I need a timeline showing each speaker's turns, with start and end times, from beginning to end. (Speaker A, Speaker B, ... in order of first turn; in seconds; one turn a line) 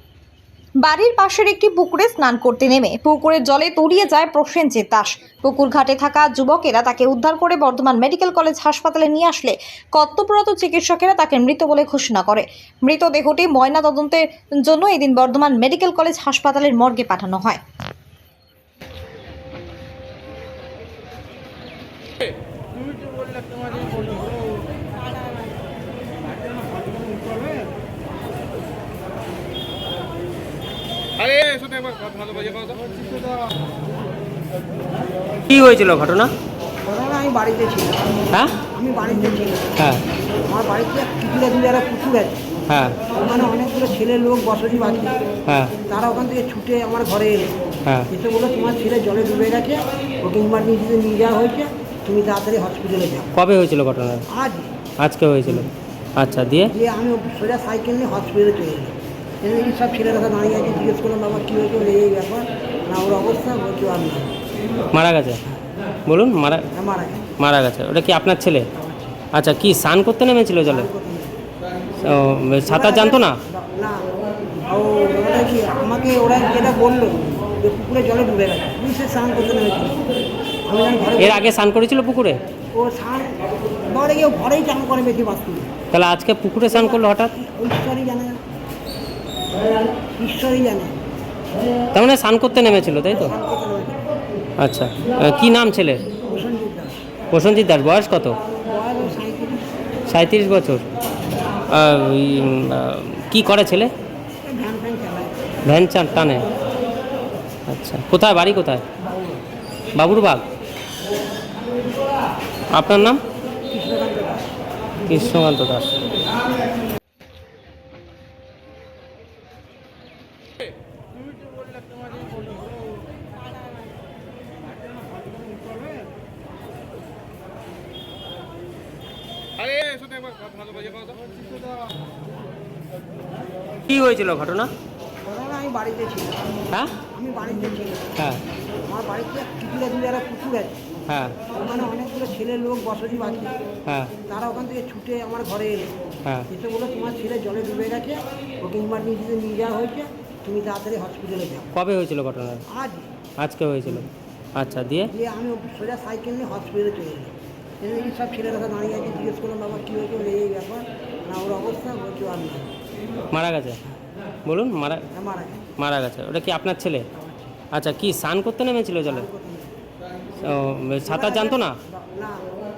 Speaker A: 0.8-17.6
Speaker B: 35.5-36.3
Speaker C: 36.8-38.0
Speaker C: 38.7-39.7
Speaker B: 39.8-40.0
Speaker C: 40.5-42.4
Speaker B: 42.7-43.0
Speaker C: 43.1-45.2
Speaker B: 45.5-45.8
Speaker C: 45.9-47.5
Speaker C: 48.1-53.3
Speaker B: 53.3-54.3
Speaker C: 54.3-54.7
Speaker B: 55.0-56.7
Speaker C: 56.7-64.3
Speaker B: 64.9-65.4
Speaker B: 66.1-66.7
Speaker C: 66.7-67.3
Speaker B: 67.4-68.7
Speaker C: 68.8-69.2
Speaker B: 69.3-70.9
Speaker C: 70.6-71.4
Speaker B: 72.0-73.4
Speaker C: 72.7-74.0
Speaker C: 74.7-80.0
Speaker C: 80.7-81.4
Speaker B: 81.2-82.4
Speaker C: 82.8-85.7
Speaker B: 85.9-87.3
Speaker C: 87.3-88.4
Speaker C: 90.2-91.0
Speaker B: 91.9-93.3
Speaker C: 93.1-94.0
Speaker B: 94.6-96.1
Speaker C: 96.2-97.0
Speaker B: 97.3-98.4
Speaker C: 98.6-99.7
Speaker B: 100.1-100.9
Speaker B: 101.7-103.9
Speaker C: 104.4-105.3
Speaker B: 105.7-106.5
Speaker B: 107.7-108.8
Speaker B: 110.0-110.4
Speaker B: 112.7-113.2
Speaker C: 113.7-114.5
Speaker B: 115.1-116.0
Speaker B: 133.9-134.7
Speaker C: 135.2-136.4
Speaker C: 137.1-138.1
Speaker C: 138.9-140.8
Speaker B: 141.1-141.3
Speaker C: 141.5-143.6
Speaker B: 143.8-144.2
Speaker C: 144.3-145.9
Speaker C: 146.5-151.7
Speaker B: 151.7-152.6
Speaker C: 152.7-153.1
Speaker B: 153.4-155.1
Speaker C: 155.1-162.7
Speaker B: 163.3-163.8
Speaker B: 164.4-165.0
Speaker C: 165.1-165.7
Speaker B: 165.8-167.1
Speaker C: 167.1-167.6
Speaker B: 167.7-169.3
Speaker C: 169.0-169.7
Speaker B: 170.4-171.8
Speaker C: 171.1-172.4